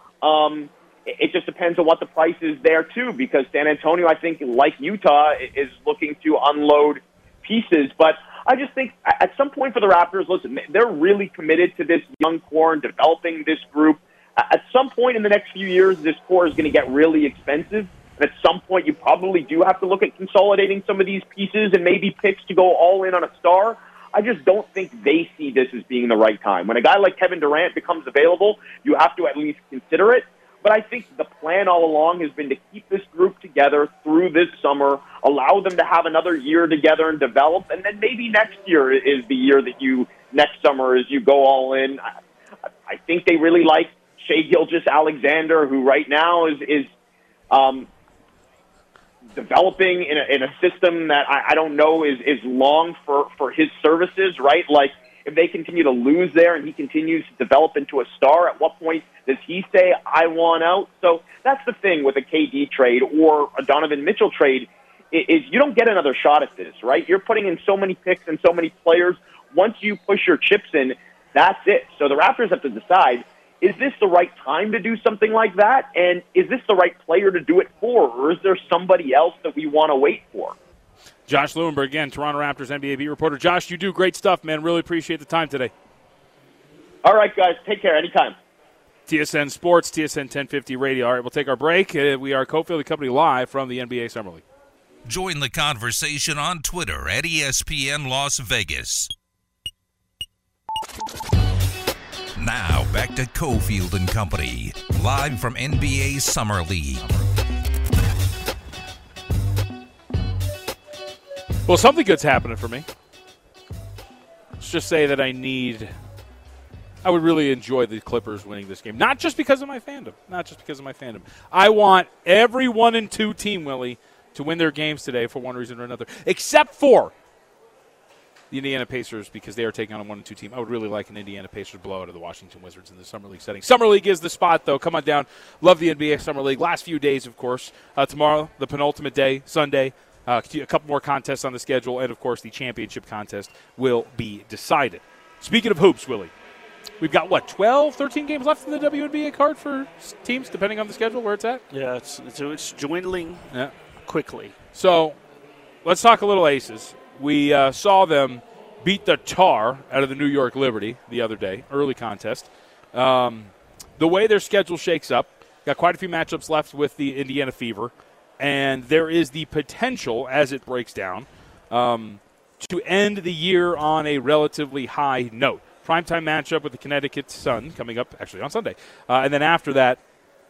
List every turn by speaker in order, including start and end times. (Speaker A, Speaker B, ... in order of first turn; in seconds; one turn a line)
Speaker A: 0.2-42.0
Speaker A: 42.9-46.9
Speaker A: 47.5-47.9
Speaker A: 49.4-80.6
Speaker B: 81.3-85.7
Speaker A: 87.0-88.4
Speaker B: 89.1-94.4
Speaker C: 95.1-99.1
Speaker C: 102.3-107.2
Speaker B: 111.7-112.9
Speaker B: 114.6-115.9
Speaker B: 117.0-127.1
Speaker B: 128.5-146.3
Speaker B: 147.0-151.6
Speaker D: 151.7-153.4
Speaker D: 154.1-154.6
Speaker B: 154.7-155.2
Speaker B: 155.8-180.0